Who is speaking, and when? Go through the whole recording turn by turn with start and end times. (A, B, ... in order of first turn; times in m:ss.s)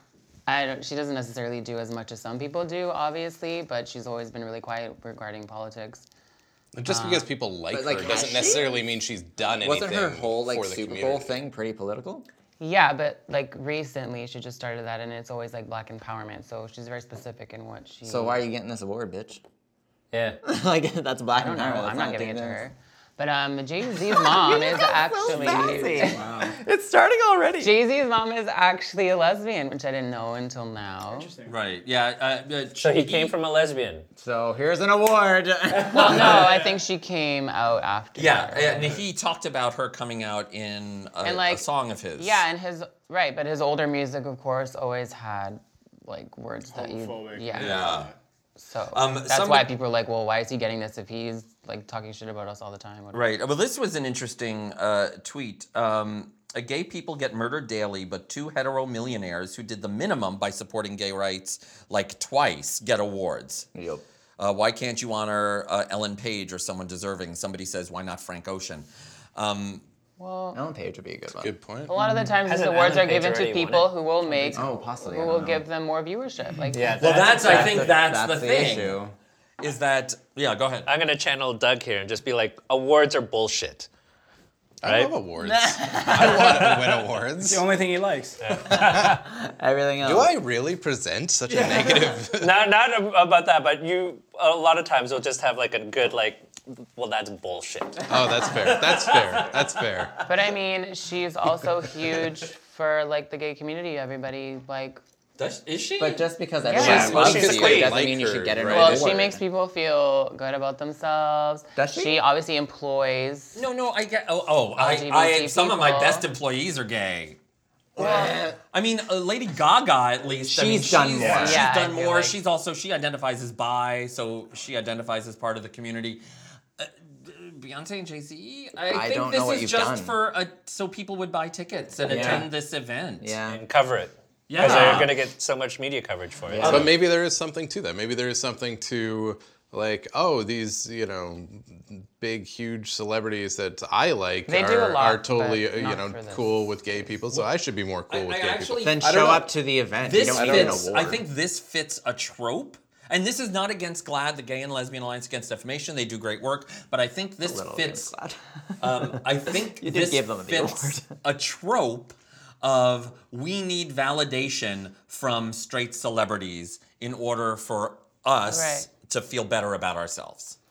0:00.5-0:06.0 A
0:06.7-0:11.4 B
0:06.8-0:07.3 A
0:07.7-0:08.7 C
0:09.6-0:12.3 C
0:12.6-0:18.4 A
0:18.0-0:19.4 C
0:20.1-0:20.4 D
0:20.4-0:22.6 C
0:21.4-0:26.3 A
0:24.0-0:27.8 C
0:25.9-0:26.6 E
0:27.6-0:31.3 A
0:31.1-0:31.6 E
0:31.5-0:33.4 F
0:32.8-0:34.1 D
0:34.2-0:36.5 C
0:35.8-0:39.0 A
0:38.2-0:42.4 F
0:41.2-0:47.9 A
0:46.7-0:48.1 E
0:47.6-0:48.1 F
0:48.6-0:53.2 A
0:48.9-0:49.7 F
0:53.1-1:03.7 F
1:03.7-1:04.0 C
1:04.4-1:09.8 F
1:10.2-1:10.6 A
1:10.5-1:11.5 C
1:11.4-1:11.9 B
1:11.9-1:17.7 A
1:12.4-1:14.6 D
1:14.5-1:15.7 C
1:16.7-1:17.9 D
1:17.0-1:19.0 F
1:17.4-1:19.2 C
1:19.6-1:20.9 F
1:20.9-1:23.9 D
1:24.8-1:27.7 B
1:24.8-1:25.1 D
1:25.4-1:26.7 C
1:26.3-1:26.9 E
1:27.4-1:28.4 E
1:28.4-1:29.2 D
1:28.7-1:29.2 B
1:29.0-1:30.3 C
1:30.0-1:32.5 B
1:31.5-1:32.1 E
1:32.4-1:39.5 D
1:38.1-1:40.2 B
1:40.3-1:45.0 A
1:45.4-1:47.4 F
1:46.0-1:49.4 C
1:46.7-1:47.2 A
1:46.7-1:49.2 B
1:46.8-1:48.0 D
1:48.7-1:53.6 A
1:51.8-1:52.2 C
1:53.6-1:57.4 F
1:54.8-1:56.3 A
1:58.0-1:58.6 C
1:58.0-2:06.2 F
2:00.4-2:01.7 C
2:01.2-2:02.4 A
2:06.8-2:13.4 F
2:08.9-2:10.2 C
2:12.0-2:12.6 C
2:13.2-2:13.6 C
2:13.5-2:16.8 D
2:14.5-2:15.1 F
2:14.6-2:15.0 C
2:16.5-2:16.9 C
2:16.6-2:16.9 F
2:16.6-2:29.5 B
2:24.5-2:27.1 A
2:28.1-2:29.3 F
2:28.8-2:31.2 C
2:30.0-2:38.1 F
2:30.2-2:30.9 B
2:37.4-2:41.1 C
2:38.8-2:50.6 F
2:48.5-2:48.9 A